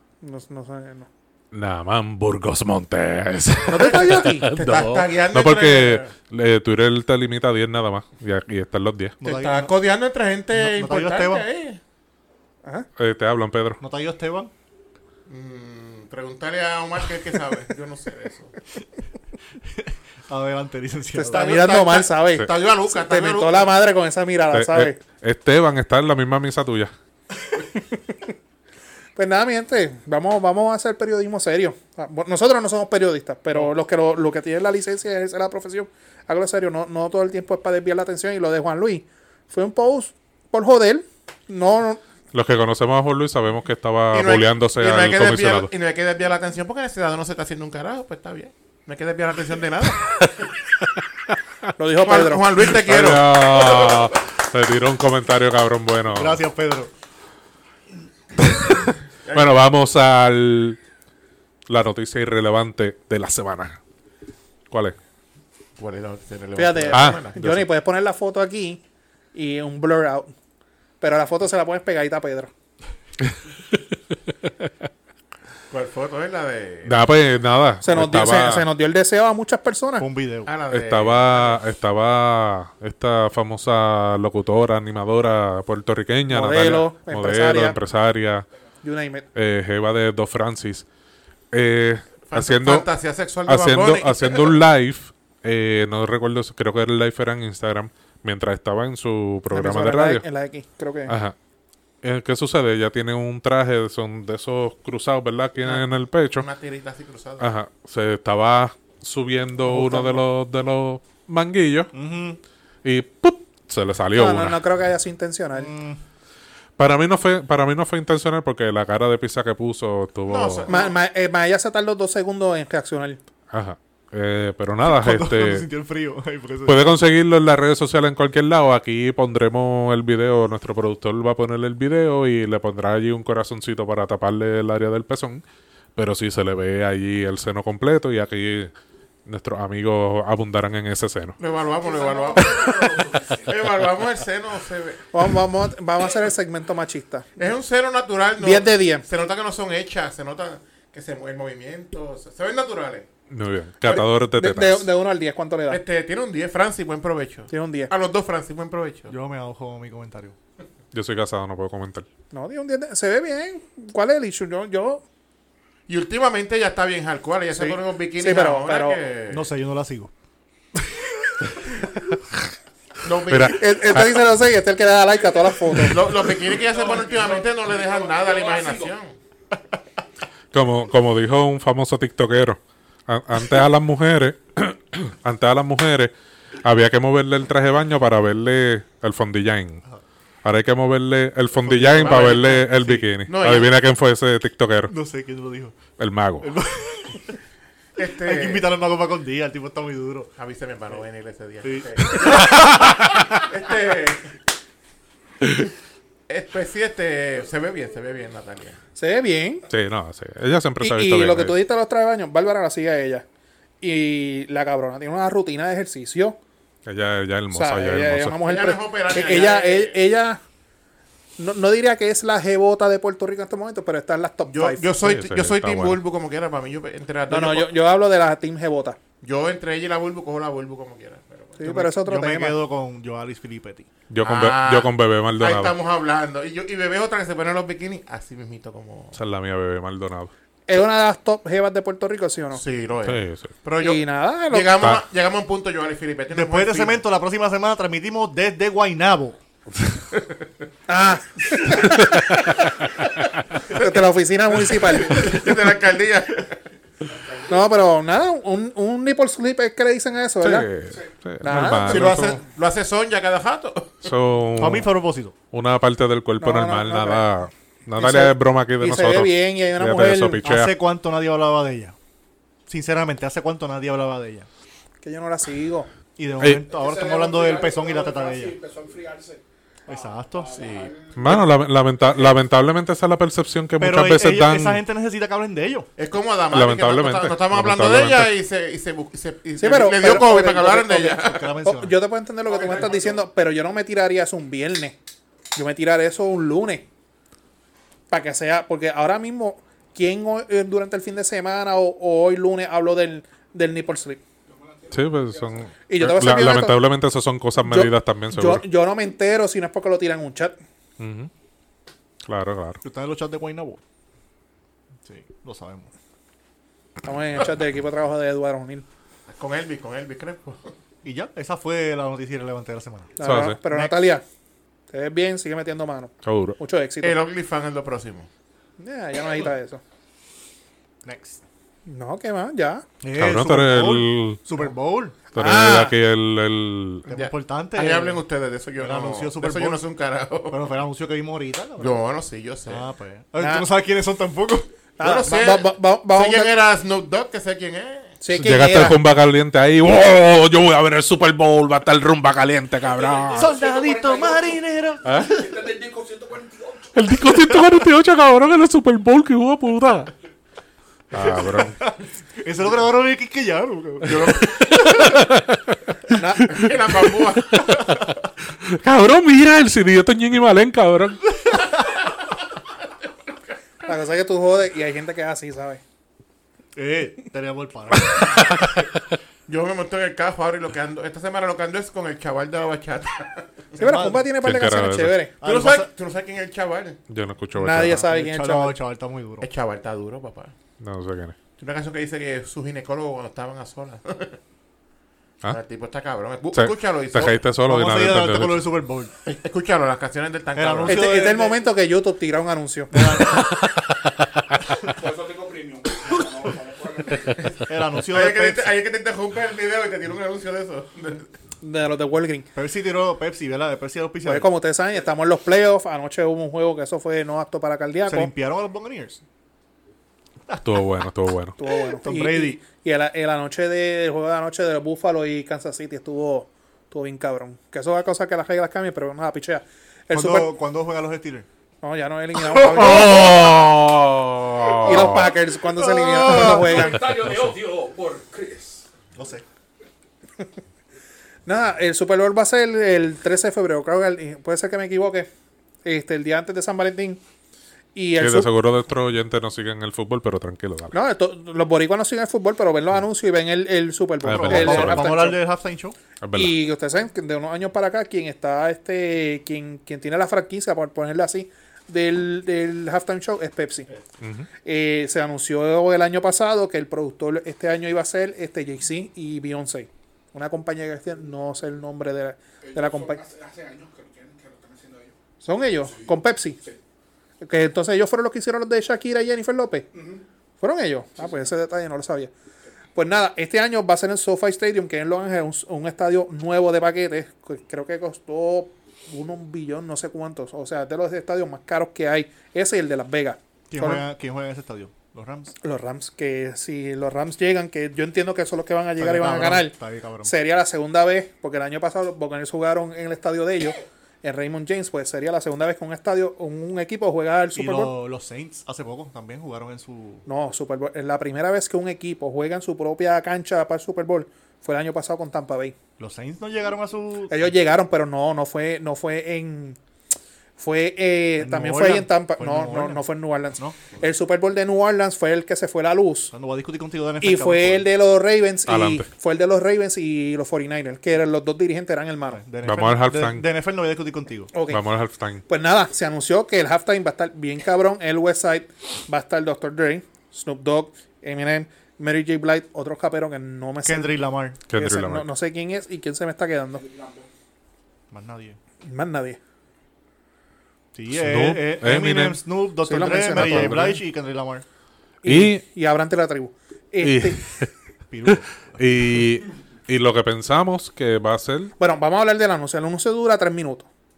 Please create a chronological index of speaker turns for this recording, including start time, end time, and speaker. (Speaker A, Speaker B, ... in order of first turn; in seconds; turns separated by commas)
Speaker A: 0.2-1.1, Speaker B: 1.5-9.2, Speaker A: 3.7-4.5, Speaker C: 3.7-6.1, Speaker D: 9.2-9.7, Speaker C: 9.2-11.8, Speaker D: 10.6-11.4, Speaker B: 12.9-13.8, Speaker D: 13.8-14.5, Speaker C: 15.3-18.6, Speaker D: 19.8-21.6, Speaker A: 21.1-25.0, Speaker C: 21.3-23.8, Speaker B: 24.5-26.9, Speaker A: 29.1-42.0, Speaker B: 42.3-45.7, Speaker C: 44.1-50.1, Speaker A: 51.8-52.4, Speaker C: 52.0-54.0, Speaker B: 52.6-56.4, Speaker D: 56.1-56.9, Speaker B: 58.4-60.8, Speaker C: 59.2-59.5, Speaker B: 61.7-63.8, Speaker B: 64.7-65.0, Speaker C: 65.8-67.6, Speaker A: 66.5-68.8, Speaker B: 66.9-67.2, Speaker A: 69.3-70.3, Speaker A: 71.0-72.5, Speaker C: 75.7-77.0, Speaker B: 76.8-78.7, Speaker A: 77.8-80.0, Speaker D: 80.0-80.5, Speaker C: 80.5-81.6, Speaker B: 80.7-88.5, Speaker A: 86.3-87.8, Speaker A: 88.8-89.2, Speaker B: 89.3-90.8, Speaker B: 91.5-92.9, Speaker C: 92.3-94.5, Speaker B: 93.5-100.2, Speaker A: 99.5-101.2, Speaker B: 101.1-101.3, Speaker B: 102.0-106.5, Speaker C: 106.3-107.5, Speaker B: 107.4-111.9, Speaker A: 109.7-110.2, Speaker D: 111.9-112.4, Speaker B: 112.8-114.6, Speaker A: 114.1-115.7, Speaker D: 115.5-116.0, Speaker B: 116.8-120.7, Speaker C: 120.3-120.9, Speaker A: 120.7-123.2, Speaker B: 123.5-125.7, Speaker D: 124.8-126.8, Speaker B: 126.7-135.4, Speaker B: 135.9-138.7, Speaker B: 139.2-141.4, Speaker C: 141.4-142.7, Speaker E: 141.8-143.5, Speaker C: 143.4-145.1, Speaker A: 145.1-147.3, Speaker C: 147.4-153.1, Speaker A: 148.4-149.0, Speaker B: 153.3-154.9, Speaker A: 153.8-155.8, Speaker C: 155.7-159.1, Speaker A: 157.5-157.9, Speaker D: 159.1-160.3, Speaker B: 160.9-162.1, Speaker A: 162.3-165.0, Speaker C: 165.9-169.5, Speaker A: 167.6-169.0, Speaker D: 169.3-170.1, Speaker C: 173.0-173.7, Speaker B: 173.3-174.2, Speaker A: 173.5-176.1, Speaker C: 175.9-179.1, Speaker E: 176.6-178.9, Speaker B: 180.5-186.1, Speaker B: 186.6-189.8, Speaker B: 190.4-194.9, Speaker D: 191.7-192.9, Speaker C: 191.8-193.7, Speaker D: 194.9-195.8, Speaker B: 196.0-196.6, Speaker D: 196.4-197.4, Speaker C: 197.9-198.7, Speaker D: 198.2-200.3, Speaker C: 200.4-204.3, Speaker D: 201.6-202.7, Speaker B: 202.5-202.8, Speaker B: 205.4-205.7, Speaker C: 206.3-208.8, Speaker A: 208.9-209.7, Speaker B: 209.7-211.6, Speaker A: 210.8-213.2, Speaker A: 213.8-216.4, Speaker B: 216.8-218.3, Speaker A: 217.5-220.4, Speaker C: 218.4-220.0, Speaker A: 221.4-224.9, Speaker C: 224.5-227.7, Speaker B: 225.0-226.0, Speaker A: 227.3-229.0, Speaker C: 229.2-231.7, Speaker A: 231.6-232.6, Speaker D: 231.6-233.9, Speaker B: 234.1-235.7, Speaker C: 234.2-239.2, Speaker B: 239.1-240.3, Speaker A: 240.7-242.6, Speaker C: 242.5-247.0, Speaker B: 243.0-243.5, Speaker A: 243.8-244.7, Speaker D: 246.3-249.4, Speaker A: 250.9-252.6, Speaker B: 251.8-252.7, Speaker C: 253.6-254.0, Speaker A: 253.7-255.4, Speaker C: 254.6-256.6, Speaker A: 257.5-260.7, Speaker B: 260.4-262.4, Speaker A: 261.4-262.2, Speaker C: 261.8-264.1, Speaker B: 264.0-264.9, Speaker D: 264.6-265.3, Speaker B: 265.5-270.7, Speaker A: 266.4-267.3, Speaker A: 268.0-270.4, Speaker D: 270.4-271.9, Speaker D: 272.7-274.5, Speaker A: 275.0-275.9, Speaker D: 276.1-278.6, Speaker B: 276.4-276.6, Speaker E: 276.7-281.4, Speaker D: 279.9-280.6, Speaker C: 280.5-280.9, Speaker B: 281.1-284.8, Speaker D: 283.8-285.9, Speaker C: 286.0-291.6, Speaker B: 286.5-288.3, Speaker A: 289.6-295.0, Speaker D: 291.0-291.9, Speaker E: 292.5-293.2, Speaker A: 295.5-296.9, Speaker A: 298.1-304.2, Speaker E: 304.5-305.7, Speaker B: 304.9-308.6, Speaker A: 305.9-306.8, Speaker A: 307.6-310.6, Speaker B: 311.0-311.3, Speaker B: 312.2-312.8, Speaker D: 312.8-313.8, Speaker D: 315.0-315.9, Speaker A: 317.0-318.8, Speaker C: 319.3-320.7, Speaker D: 321.0-323.2, Speaker A: 323.2-324.2, Speaker B: 323.2-323.6, Speaker A: 324.9-327.2, Speaker B: 326.2-326.6, Speaker C: 327.0-328.3, Speaker A: 328.8-329.8, Speaker D: 331.0-331.4, Speaker A: 331.9-332.8, Speaker D: 333.0-335.1, Speaker B: 333.1-334.4, Speaker A: 335.3-335.9, Speaker B: 335.3-337.1, Speaker D: 337.1-338.2, Speaker C: 337.1-340.7, Speaker D: 338.8-339.8, Speaker D: 340.5-342.0, Speaker C: 341.8-342.9, Speaker D: 342.7-344.7, Speaker A: 343.4-343.7, Speaker A: 345.0-346.5, Speaker C: 345.0-348.2, Speaker A: 348.2-349.0, Speaker B: 348.3-353.5, Speaker E: 352.8-357.1, Speaker D: 353.3-355.0, Speaker B: 355.0-355.4, Speaker B: 356.9-360.1, Speaker B: 361.1-361.8, Speaker D: 361.2-364.9, Speaker C: 364.0-365.0, Speaker B: 364.5-371.2, Speaker A: 366.1-366.6, Speaker C: 366.5-367.9, Speaker A: 373.8-375.8, Speaker D: 376.7-378.6, Speaker B: 378.0-379.0, Speaker C: 379.5-383.6, Speaker D: 383.8-384.3, Speaker A: 383.8-385.3, Speaker B: 384.4-385.2, Speaker D: 385.4-385.9, Speaker C: 385.4-387.0, Speaker B: 387.1-388.0, Speaker A: 387.6-388.8, Speaker D: 387.9-389.5, Speaker C: 389.4-390.5, Speaker B: 390.8-391.4, Speaker C: 391.6-394.4, Speaker C: 395.5-397.4, Speaker B: 396.5-398.6, Speaker D: 397.6-399.1, Speaker C: 399.2-401.1, Speaker D: 400.6-401.6, Speaker A: 400.9-403.0, Speaker D: 402.9-403.4, Speaker B: 403.2-404.4, Speaker E: 404.9-407.6, Speaker D: 407.6-408.7, Speaker C: 408.1-411.3, Speaker A: 411.6-412.5, Speaker D: 412.5-414.5, Speaker A: 414.2-418.3, Speaker D: 418.1-419.2, Speaker B: 420.6-421.6, Speaker A: 421.6-430.5, Speaker D: 422.0-422.6, Speaker D: 430.1-431.5, Speaker A: 431.8-433.5, Speaker B: 432.5-435.3, Speaker E: 433.0-433.5, Speaker E: 434.7-438.9, Speaker A: 434.8-437.0, Speaker D: 439.1-439.4, Speaker A: 441.5-445.3, Speaker A: 445.8-447.2, Speaker A: 447.9-448.5, Speaker B: 448.2-450.9, Speaker A: 450.9-455.4, Speaker B: 454.2-455.1, Speaker D: 454.3-455.9, Speaker B: 456.2-456.5, Speaker A: 456.3-463.9, Speaker B: 464.2-464.5, Speaker A: 464.6-473.2, Speaker E: 472.6-475.1, Speaker A: 475.4-476.6, Speaker E: 475.8-476.1, Speaker A: 477.4-479.9, Speaker E: 479.9-480.2, Speaker A: 480.6-482.3, Speaker A: 482.9-494.0, Speaker D: 493.7-495.5, Speaker A: 495.6-507.9, Speaker D: 499.0-500.3, Speaker D: 507.5-510.2, Speaker A: 510.2-515.7, Speaker D: 516.0-517.5, Speaker A: 517.3-519.8, Speaker A: 520.6-526.3, Speaker D: 521.4-523.0, Speaker D: 526.3-527.9, Speaker A: 527.2-532.4, Speaker B: 528.7-529.1, Speaker D: 532.3-534.5, Speaker B: 532.6-533.4, Speaker A: 534.5-534.8, Speaker B: 534.7-535.4, Speaker A: 535.5-546.8, Speaker D: 543.8-544.6, Speaker B: 544.7-545.3, Speaker E: 546.7-547.3, Speaker D: 548.1-548.6, Speaker A: 548.8-549.4, Speaker D: 550.9-554.6, Speaker B: 551.1-552.4, Speaker A: 552.8-554.0, Speaker B: 553.3-554.0, Speaker A: 555.2-557.4, Speaker B: 555.2-555.6, Speaker B: 557.0-557.7, Speaker D: 558.1-558.9, Speaker B: 558.2-561.7, Speaker A: 561.8-563.9